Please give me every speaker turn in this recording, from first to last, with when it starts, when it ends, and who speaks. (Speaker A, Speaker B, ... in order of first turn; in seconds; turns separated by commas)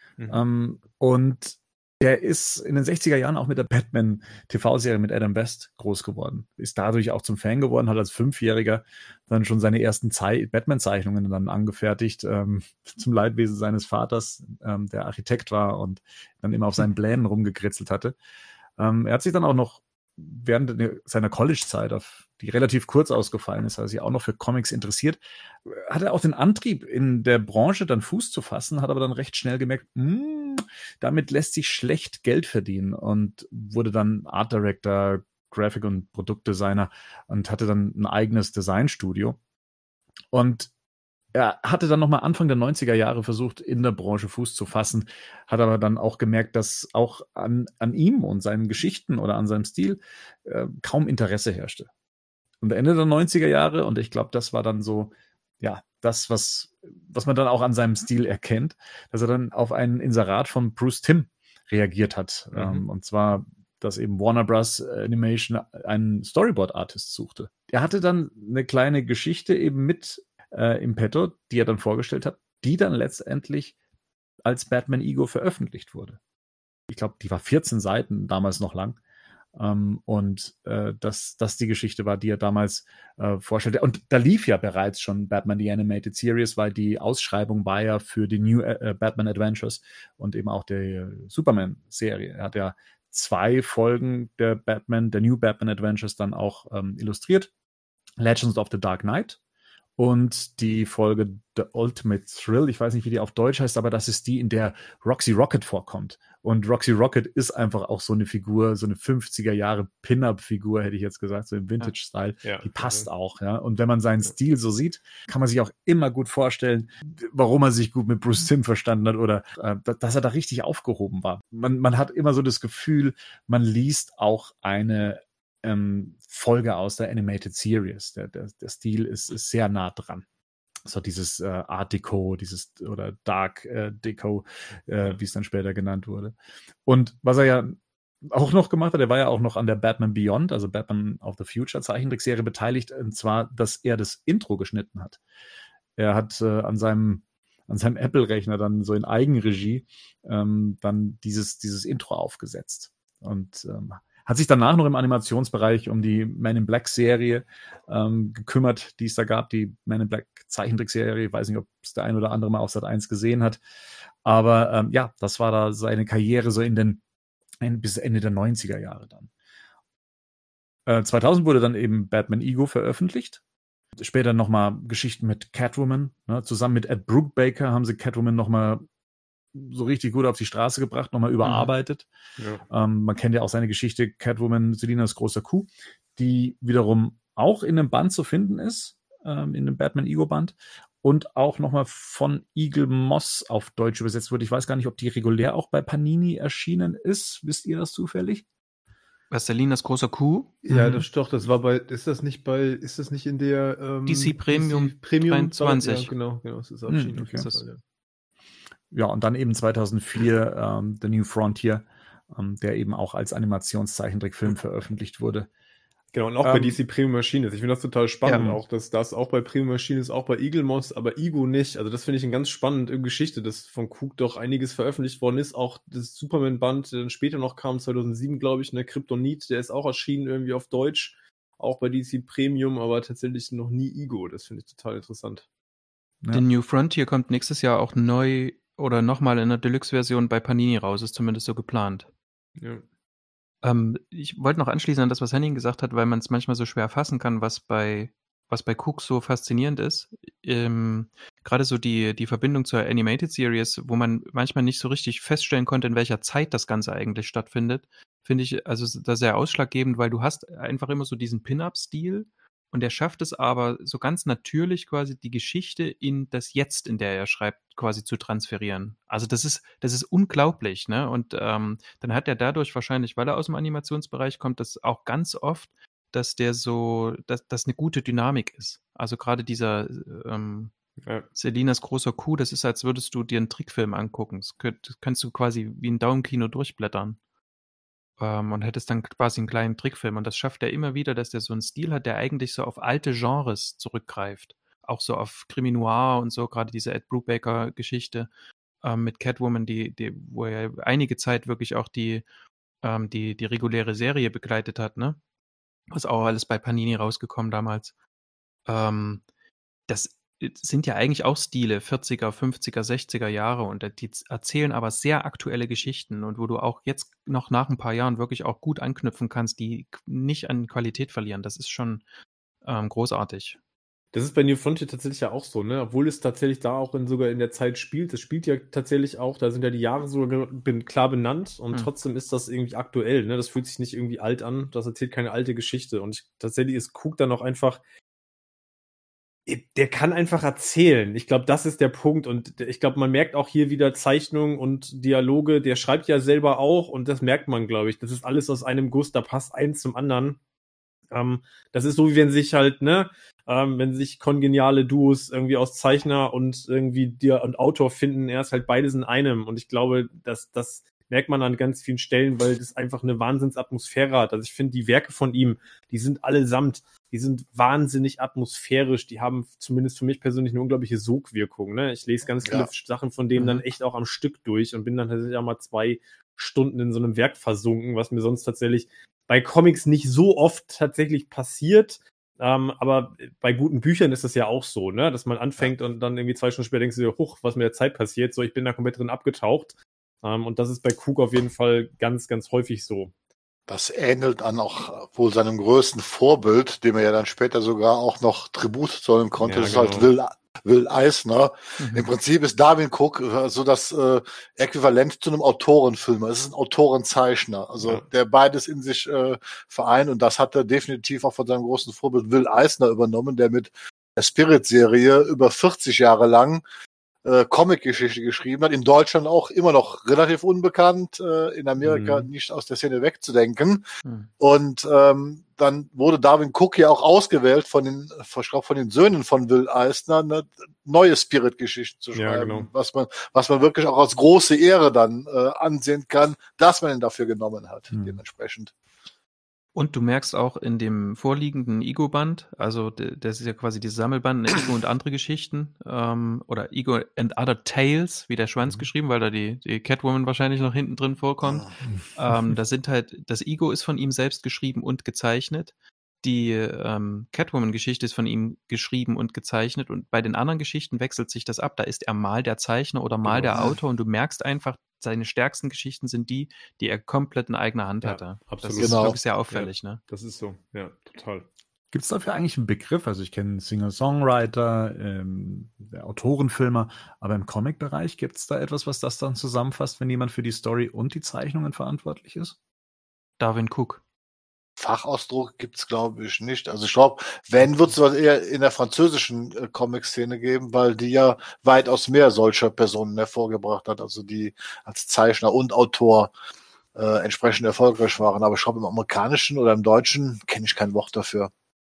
Speaker A: 0.3-18.1, Speaker A: 18.8-39.4, Speaker A: 40.3-40.7, Speaker A: 41.3-51.9, Speaker A: 52.6-73.7, Speaker B: 62.5-62.8, Speaker A: 74.4-76.2, Speaker A: 76.9-79.0, Speaker A: 79.5-97.5, Speaker A: 98.2-99.4, Speaker A: 100.0-130.2, Speaker B: 112.4-113.1, Speaker A: 130.8-136.3, Speaker A: 136.8-145.2, Speaker A: 146.0-163.6, Speaker A: 164.2-167.0, Speaker A: 167.6-169.3, Speaker A: 170.8-173.4, Speaker A: 173.9-178.8, Speaker A: 179.5-182.1, Speaker A: 182.7-198.4, Speaker C: 199.3-200.5, Speaker B: 200.7-207.8, Speaker A: 200.7-201.1, Speaker C: 204.1-206.1, Speaker A: 206.9-207.4, Speaker C: 207.1-207.6, Speaker A: 208.9-215.5, Speaker B: 216.1-235.4, Speaker A: 216.4-216.8, Speaker A: 218.3-218.6, Speaker C: 236.3-242.1, Speaker B: 242.6-242.8, Speaker C: 243.6-280.7, Speaker C: 281.4-287.2, Speaker C: 288.2-298.3, Speaker C: 298.8-302.2, Speaker C: 302.8-305.2, Speaker C: 305.9-307.9, Speaker C: 308.7-309.2, Speaker C: 309.9-322.0, Speaker C: 322.6-323.6, Speaker B: 324.1-337.8, Speaker B: 339.5-350.4, Speaker B: 351.1-393.1, Speaker C: 373.4-373.6, Speaker D: 393.7-416.6, Speaker B: 399.4-400.1, Speaker C: 401.8-402.1, Speaker D: 417.2-423.9, Speaker B: 421.8-422.3, Speaker C: 424.0-424.3, Speaker D: 424.4-438.7, Speaker B: 432.1-432.7, Speaker A: 437.9-438.2, Speaker C: 439.7-470.0, Speaker D: 451.4-451.7, Speaker B: 463.2-463.7, Speaker B: 468.0-471.5, Speaker D: 468.8-469.2, Speaker A: 471.9-482.6, Speaker C: 483.4-484.0, Speaker D: 484.8-496.3, Speaker D: 496.9-501.5